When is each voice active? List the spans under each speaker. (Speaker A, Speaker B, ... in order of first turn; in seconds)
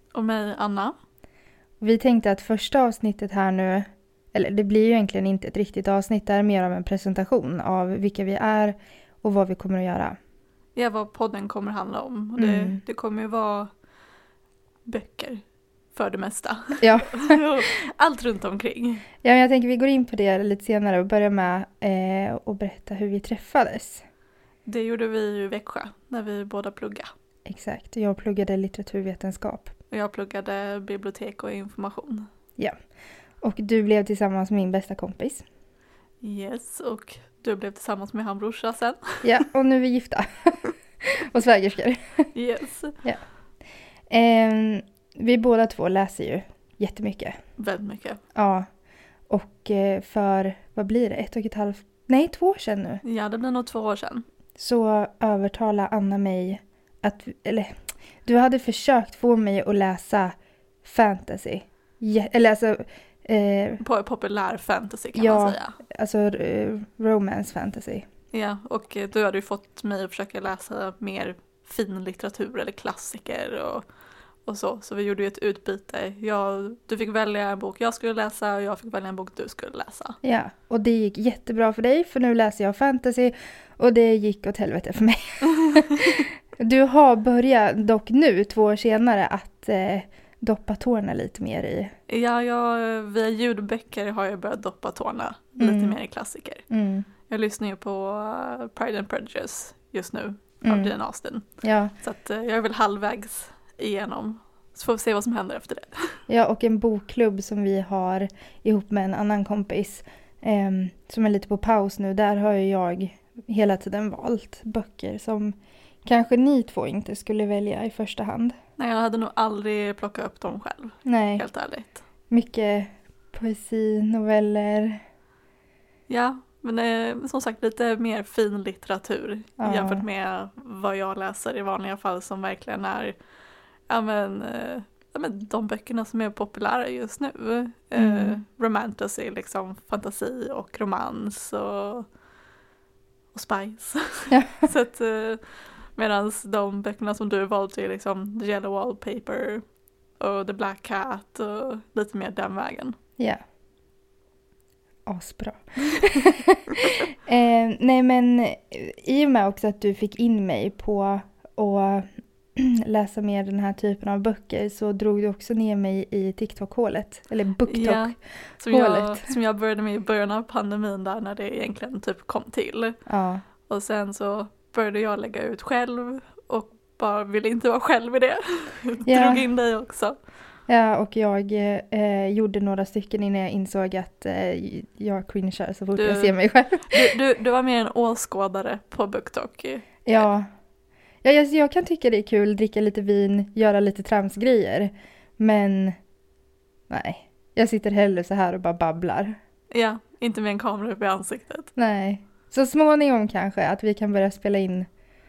Speaker A: 0.1-0.9, 10.8-13.7, 14.9-15.4, 15.9-19.1, 24.6-27.1, 29.9-32.3, 36.2-39.2, 42.3-42.9, 47.6-48.2, 53.0-54.2, 63.8-65.8, 68.3-73.8, 74.5-80.2, 92.1-96.6, 97.3-101.5, 102.0-106.2, 118.8-122.0, 126.1-133.2, 133.9-142.1, 143.3-145.4, 146.0-149.6, 150.2-152.9, 167.7-173.0, 173.7-180.2, 186.0-186.3, 186.9-190.3, 199.7-201.7
Speaker B: 1.8-10.2, 12.4-12.8, 16.8-17.4, 19.2-24.0, 27.5-29.7, 33.4-35.4, 39.2-42.3, 44.1-47.4, 48.3-48.7, 49.3-53.0, 54.6-63.8, 65.1-68.1, 80.2-91.9, 95.6-96.0, 96.7-97.1, 100.6-100.9, 101.6-101.9, 106.3-118.5, 121.0-121.5, 122.3-125.0, 129.6-130.1, 138.0-138.4, 144.3-144.7, 155.1-168.1, 168.7-169.3, 173.1-173.4, 179.1-179.5, 180.7-187.2, 190.1-190.5, 191.2-195.9, 196.9-199.4, 201.8-204.9